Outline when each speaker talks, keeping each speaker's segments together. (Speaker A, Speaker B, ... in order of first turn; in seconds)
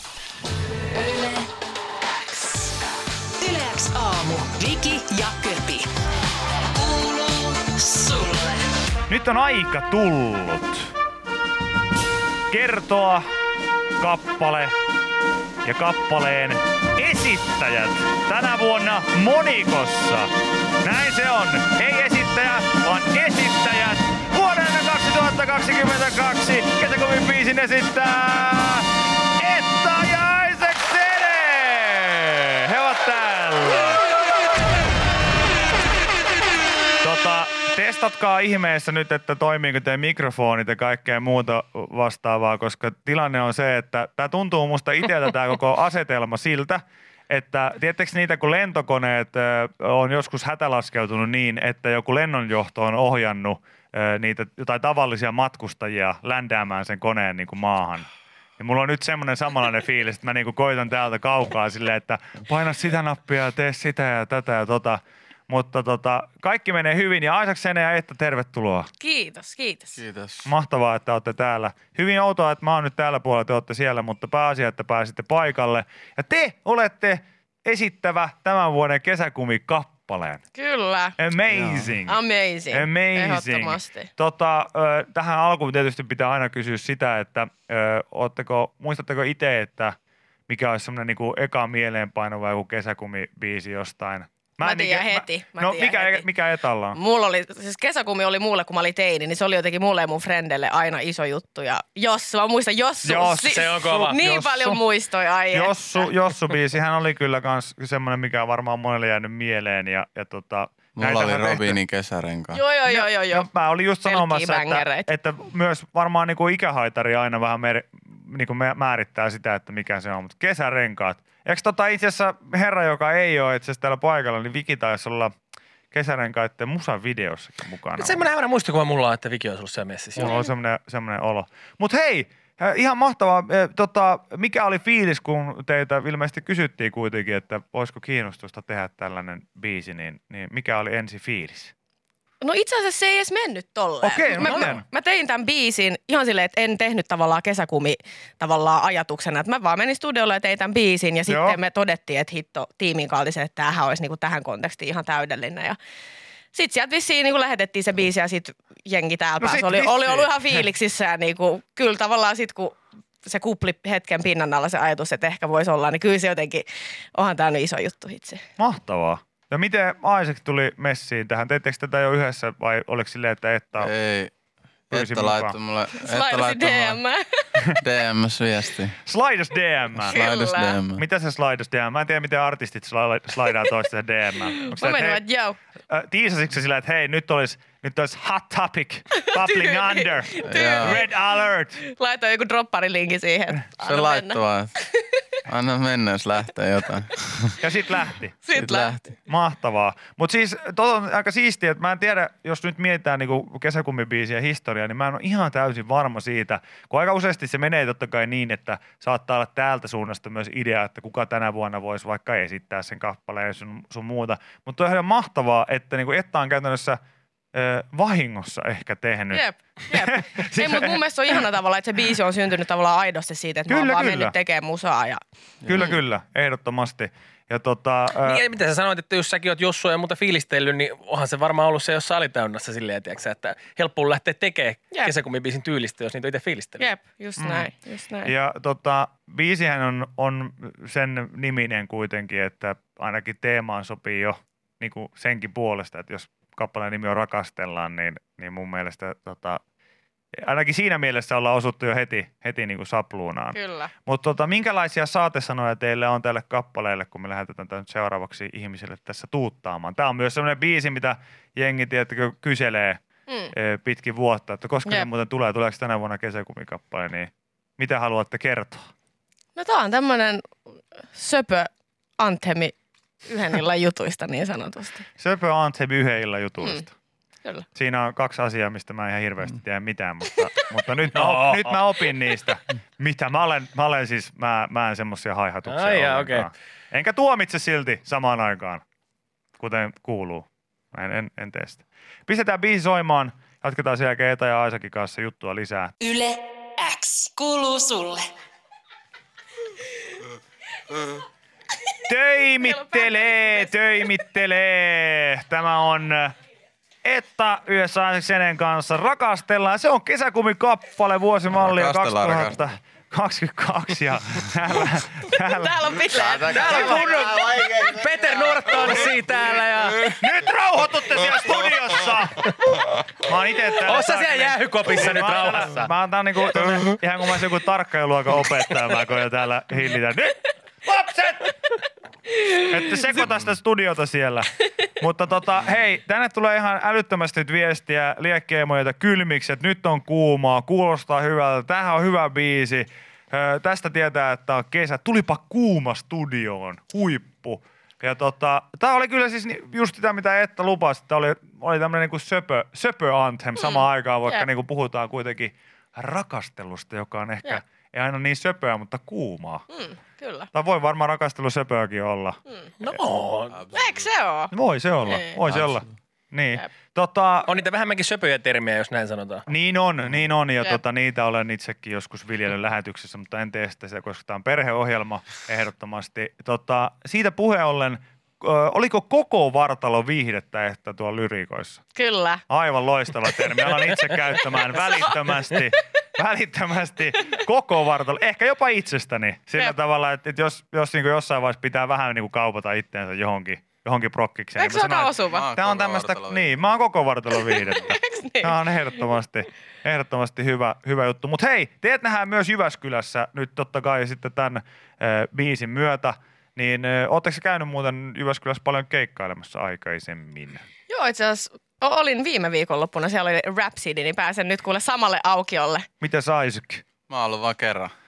Speaker A: 0.9-1.5, 3.4-5.9, 6.8-8.7, 296.1-298.3
Speaker B: 9.1-10.9, 12.5-13.2, 14.0-14.7, 15.6-20.3, 20.8-34.0, 37.0-58.1, 58.6-68.9, 70.4-80.4, 81.2-82.2, 82.7-90.0, 90.5-97.0, 103.0-104.8, 105.5-111.8, 112.9-125.3, 125.9-128.3, 130.2-141.7, 144.0-144.8, 151.2-151.6, 159.4-160.6, 168.6-173.9, 174.9-175.6, 179.0-180.2, 180.9-185.2, 185.9-191.8, 197.6-198.4, 199.3-217.0, 217.5-221.0, 223.7-224.3, 225.7-228.4, 237.4-237.7, 238.2-249.6, 250.4-263.0, 263.6-268.9, 275.2-276.9, 277.7-288.8, 289.6-295.9, 302.1-306.3, 307.0-315.8, 316.6-317.0, 320.2-322.5, 323.2-331.5, 332.5-359.7, 360.5-363.0, 364.5-367.5, 369.5-381.8, 382.5-410.6, 416.0-416.8
Speaker C: 69.0-70.0, 80.5-81.2, 82.0-84.1, 94.6-96.3, 96.9-106.1, 112.5-113.5, 114.0-115.1, 142.4-155.8, 156.5-168.4, 175.9-177.5, 180.1-180.8, 184.7-185.6, 189.5-191.2, 191.8-195.2, 198.4-199.0, 219.3-225.2, 236.8-238.3, 253.5-253.9, 263.3-263.5, 269.6-270.5, 271.1-272.7, 273.2-275.1, 302.6-304.0, 315.6-317.3, 353.6-354.5, 359.7-360.5, 363.7-364.5, 365.0-365.4, 381.9-382.4, 394.6-395.4, 397.3-398.7, 410.9-415.9
Speaker D: 70.0-70.5, 81.5-81.9, 111.0-112.6, 173.8-174.3, 174.9-177.0, 177.8-179.0, 180.0-181.0, 190.4-191.0, 193.8-194.7, 195.4-197.5, 198.5-199.0, 225.6-226.0, 311.5-312.6, 316.1-317.9, 363.5-364.1, 365.5-365.8, 395.3-396.6, 417.1-417.9
Speaker E: 103.4-104.2, 128.0-130.4, 144.4-144.7, 228.1-236.9, 281.1-281.8, 285.6-286.5, 316.5-320.1, 323.8-325.9, 362.8-363.6, 367.4-369.4